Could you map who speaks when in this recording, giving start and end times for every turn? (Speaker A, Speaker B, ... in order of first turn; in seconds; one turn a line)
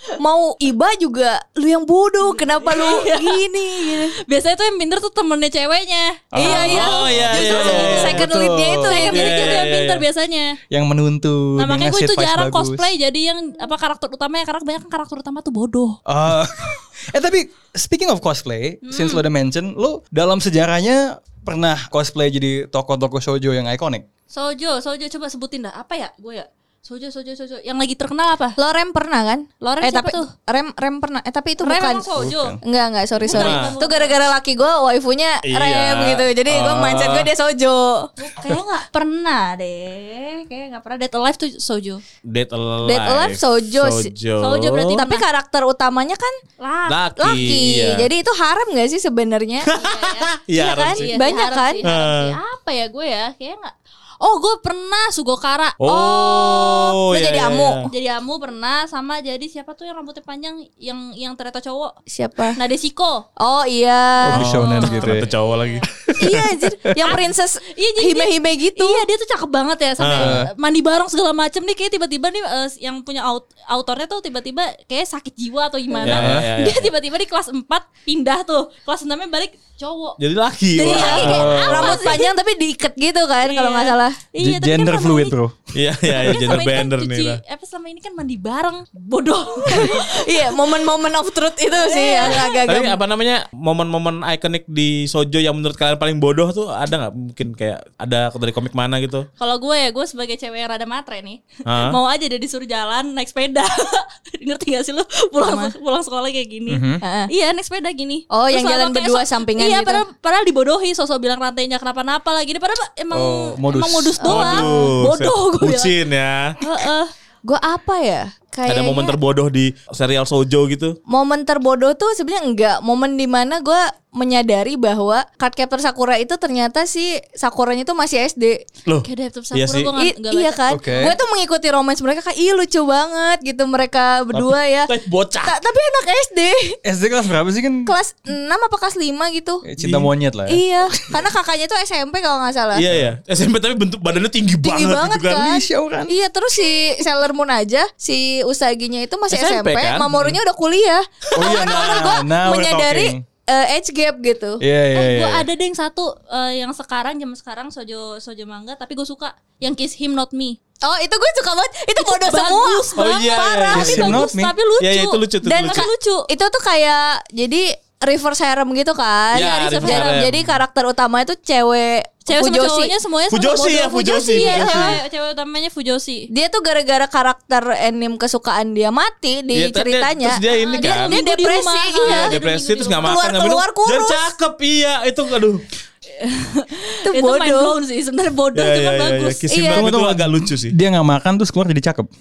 Speaker A: 0.2-4.2
Speaker B: 2.2-7.8
Speaker C: 6.3-9.1
Speaker A: 6.4-9.6
Speaker D: 6.5-8.2
Speaker B: 8.8-10.6
Speaker D: 9.1-10.0
Speaker C: 10.7-12.9
Speaker B: 11.6-16.0
Speaker C: 16.1-24.1
Speaker B: 18.9-19.2
Speaker B: 24.3-28.6
Speaker A: 28.6-32.1
Speaker B: 29.6-30.3
Speaker B: 31.6-32.6
Speaker C: 32.2-32.6
Speaker A: 32.6-38.1
Speaker B: 33.2-34.3
Speaker D: 33.3-33.7
Speaker D: 35.5-37.3
Speaker B: 38.2-42.0
Speaker D: 42.2-45.0
Speaker A: 42.8-44.1
Speaker B: 44.4-45.2
Speaker A: 44.9-46.4
Speaker B: 46.6-47.0
Speaker D: 46.9-48.1
Speaker A: 47.2-49.7
Speaker D: 49.6-51.1
Speaker B: 49.7-55.8
Speaker A: 50.8-51.8
Speaker D: 51.8-52.4
Speaker D: 55.8-57.9
Speaker A: 55.9-57.8
Speaker B: 57.9-61.9
Speaker A: 62.1-62.6
Speaker B: 62.6-63.3
Speaker A: 63.4-64.5
Speaker C: 64.2-65.3
Speaker D: 64.3-66.4
Speaker B: 64.5-65.9
Speaker A: 66.2-69.0
Speaker B: 67.8-80.2
Speaker D: 70.0-70.4
Speaker C: 70.2-70.5
Speaker D: 76.0-76.9
Speaker C: 76.1-76.5
Speaker D: 80.2-82.0
Speaker B: 80.7-82.3
Speaker A: 80.8-84.2
Speaker C: 81.2-82.0
Speaker B: 83.4-85.3
Speaker C: 84.4-85.6
Speaker D: 85.8-87.4
Speaker B: 86.2-90.2
Speaker C: 86.3-86.6
Speaker A: 89.7-93.0
Speaker B: 91.7-92.7
Speaker D: 92.7-99.3
Speaker B: 99.4-115.9
Speaker D: 101.7-102.0
Speaker A: 105.4-105.7
Speaker C: 106.7-107.0
Speaker A: 107.0-107.3
Speaker A: 108.3-110.0
Speaker C: 113.1-114.3
Speaker A: 114.2-114.9
Speaker D: 114.2-116.6
Speaker B: 116.6-117.1
Speaker A: 117.4-119.2
Speaker D: 118.7-121.0
Speaker A: 121.1-128.6
Speaker D: 128.9-129.9
Speaker B: 129.0-130.6
Speaker A: 130.0-134.9
Speaker C: 130.7-131.2
Speaker D: 134.3-135.6
Speaker A: 135.5-136.8
Speaker C: 136.8-137.9
Speaker A: 137.9-139.7
Speaker C: 139.7-140.6
Speaker D: 139.8-140.1
Speaker A: 140.5-142.8
Speaker D: 142.7-145.5
Speaker A: 144.6-154.6
Speaker C: 145.4-146.1
Speaker D: 149.3-150.4
Speaker C: 151.3-153.2
Speaker C: 154.6-155.5
Speaker B: 154.9-160.6
Speaker A: 160.8-163.0
Speaker B: 162.0-166.3
Speaker D: 163.0-164.3
Speaker C: 163.8-164.5
Speaker D: 164.8-165.9
Speaker A: 165.4-172.9
Speaker D: 169.3-170.6
Speaker B: 169.3-170.2
Speaker B: 172.3-176.3
Speaker D: 173.3-175.0
Speaker A: 174.3-175.0
Speaker A: 176.3-182.3
Speaker D: 179.5-181.1
Speaker B: 180.5-183.2
Speaker D: 182.0-185.6
Speaker A: 183.0-184.3
Speaker B: 186.2-189.5
Speaker A: 187.1-187.8
Speaker D: 188.6-190.8
Speaker A: 189.5-189.9
Speaker C: 189.7-192.1